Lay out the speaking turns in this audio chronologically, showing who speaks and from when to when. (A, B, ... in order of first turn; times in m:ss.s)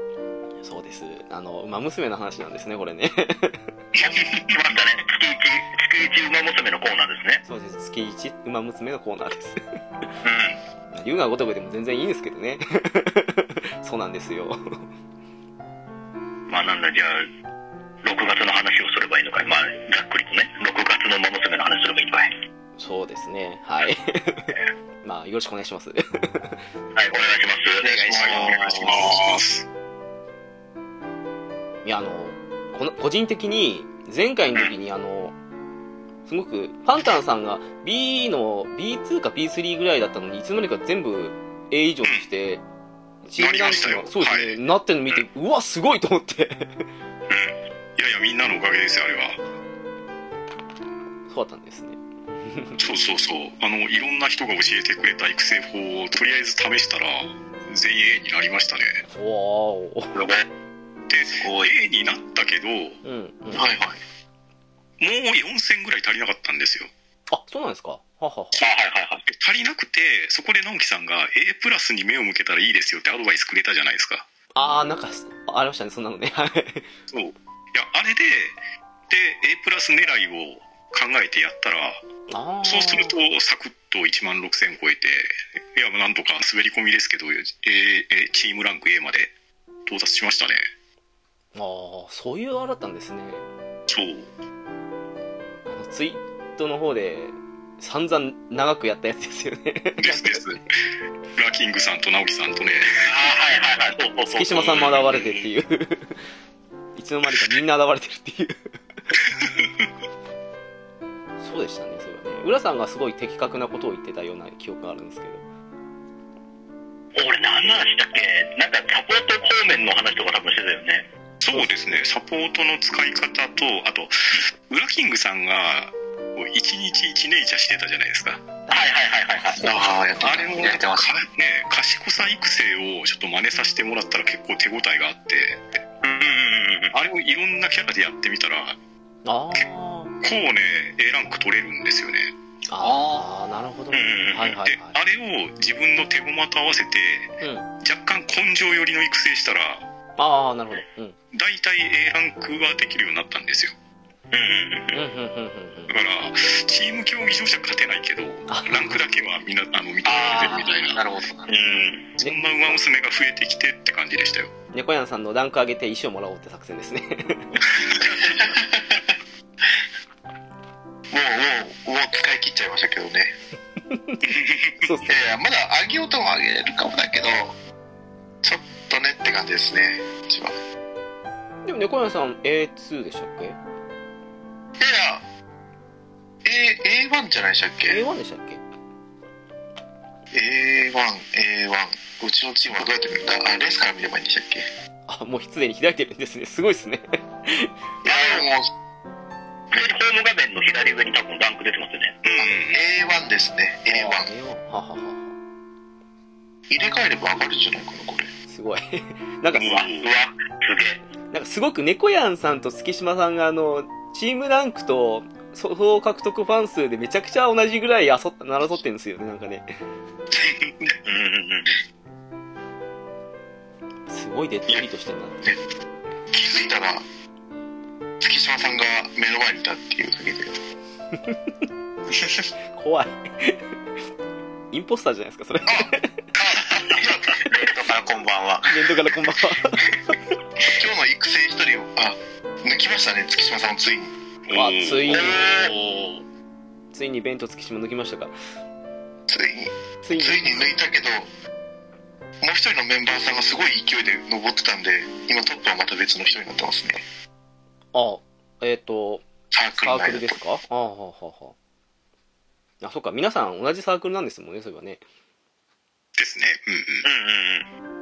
0:00.6-0:03.6 A
0:04.0-0:07.4 B
0:04.2-0:04.5 C
0:07.4-0:09.6 A
0:10.2-0:10.6 B
0:10.9-0:14.6 A
0:16.5-0:17.3 B
0:18.0-0:22.3 B
0:22.8-0:26.5 A
0:26.9-0:29.1 B
0:27.8-0:29.2 D
0:27.8-0:28.8 E
0:28.4-0:29.6 C
0:31.8-0:35.3 A
0:36.3-0:42.6 A
0:43.2-0:46.8 A
0:43.4-0:44.6 C
0:48.0-0:49.4 C
0:51.3-0:52.8 A
0:52.8-0:59.0 C
0:59.1-1:00.1 A
1:00.1-1:00.4 B
1:01.1-1:03.0 C
1:03.0-1:03.7 A
1:03.5-1:04.0 D
1:05.0-1:06.9 C
1:07.3-1:08.7 A
1:08.6-1:09.2 B
1:09.2-1:14.3 C
1:14.5-1:16.9 A
1:17.1-1:22.0 C
1:22.3-1:23.2 A
1:22.6-1:29.3 C
1:29.8-1:30.6 C
1:31.5-1:33.4 A
1:33.9-1:34.3 C
1:35.7-1:40.6 A
1:40.0-1:40.6 C
1:41.4-1:43.1 C
1:43.0-1:45.4 B
1:44.3-1:46.2 A
1:44.8-1:45.2 C
1:47.0-1:48.7 A
1:49.2-1:49.8 C
1:51.4-1:55.4 A
1:57.2-2:01.1 B
2:01.4-2:08.4 C
2:01.5-2:02.0 A
2:08.7-2:09.6 B
2:09.6-2:10.5 D
2:09.6-2:15.6 C
2:09.6-2:11.2 E
2:16.0-2:17.0 B
2:16.9-2:18.8 C
2:19.2-2:20.1 A
2:20.2-2:22.3 C
2:22.7-2:25.0 A
2:22.8-2:23.3 E
2:23.9-2:24.5 B
2:24.6-2:29.8 C
2:27.4-2:27.7 A
2:30.2-2:31.2 A
2:31.3-2:33.7 C
2:34.3-2:35.0 B
2:34.9-2:36.0 A
2:35.9-2:41.0 C
2:38.5-2:39.0 A
2:40.0-2:40.8 B
2:40.1-2:41.5 E
2:41.5-2:42.1 B
2:42.2-2:44.5 C
2:42.2-2:42.8 A
2:44.7-2:47.6 A
2:47.9-2:48.3 C
2:48.2-2:49.0 D
2:51.1-2:53.3 D
2:53.9-2:54.2 A
2:54.3-2:54.9 C
2:54.8-2:55.2 A
2:55.1-2:57.6 D
2:58.4-3:00.6 D
3:01.6-3:03.6 A
3:04.8-3:05.2 D
3:06.4-3:08.0 D
3:07.8-3:08.6 A
3:10.3-3:14.7 D
3:15.1-3:17.7 A
3:18.0-3:18.7 D
3:18.0-3:18.5 B
3:19.7-3:22.2 B
3:22.2-3:22.8 C
3:22.4-3:24.3 D
3:23.9-3:25.3 A
3:26.7-3:28.3 D
3:28.5-3:29.8 A
3:29.5-3:30.1 C
3:29.6-3:31.0 B
3:31.3-3:39.7 A
3:41.0-3:41.7 B
3:44.1-3:45.5 A
3:46.3-3:47.0 D
3:48.2-3:50.6 D
3:52.1-3:52.5 E
3:52.7-3:53.6 A
3:54.7-3:56.0 A
3:55.6-3:57.4 D
3:57.4-3:58.8 E
3:58.7-4:00.2 A
4:00.7-4:04.1 D
4:04.5-4:06.2 C
4:04.5-4:05.4 A
4:05.1-4:05.7 B
4:06.9-4:08.3 A
4:09.3-4:11.3 D
4:10.0-4:10.7 A
4:12.4-4:17.0 D
4:17.9-4:19.2 A
4:19.5-4:20.4 D
4:19.8-4:21.5 A
4:22.8-4:25.0 A
4:26.2-4:27.0 C
4:27.0-4:27.7 B